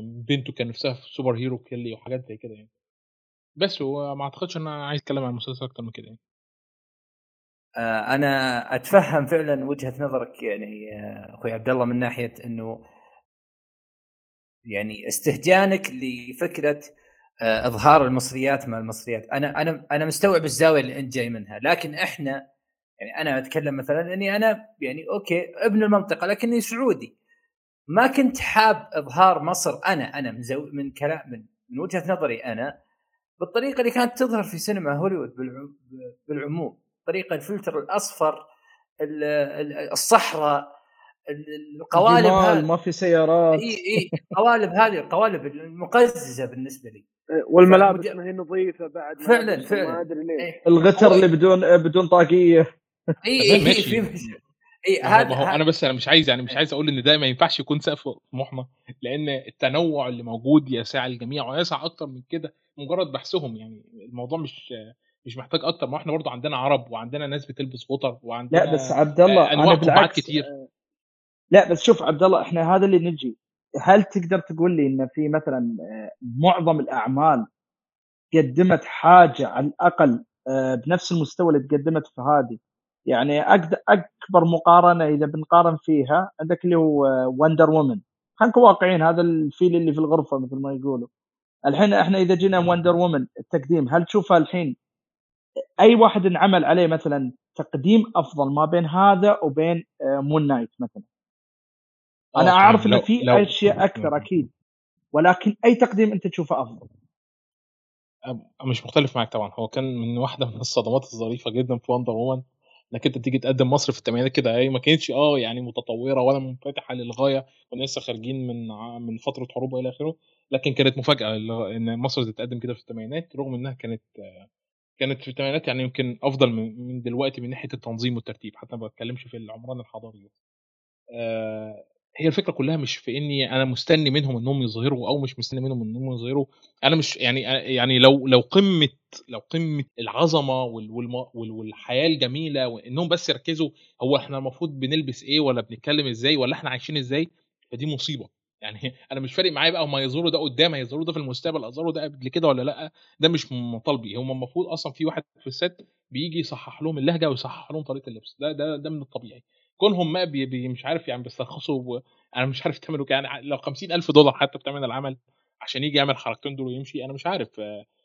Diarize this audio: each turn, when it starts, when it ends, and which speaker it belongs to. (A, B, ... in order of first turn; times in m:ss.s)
0:00.2-0:02.7 A
0:03.6-0:06.2 A
0:07.8-0:12.7 B
0:14.7-0:16.8 B
0:17.5-0:22.4 B
0:23.0-0:27.1 B
0:28.0-0:32.7 B
0:33.4-0:38.4 B
0:39.0-0:40.6 B
0:41.3-0:42.6 B
0:41.9-0:44.1 C
0:43.6-0:47.0 B
0:47.4-0:50.5 D
0:47.6-0:48.2 B
0:49.2-0:51.2 B
0:50.6-0:52.6 C
0:53.2-0:55.6 B
0:53.4-0:54.1 A
0:55.0-1:04.6 A
1:05.2-1:10.5 A
1:08.5-1:10.6 C
1:11.5-1:17.4 C
1:18.3-1:31.1 C
1:31.7-1:34.7 C
1:35.8-1:41.0 C
1:42.3-1:44.2 A
1:42.4-1:44.5 C
1:45.1-1:46.9 C
1:48.3-1:52.4 A
1:52.9-2:04.0 A
2:05.0-2:10.3 A
2:11.2-2:47.5 A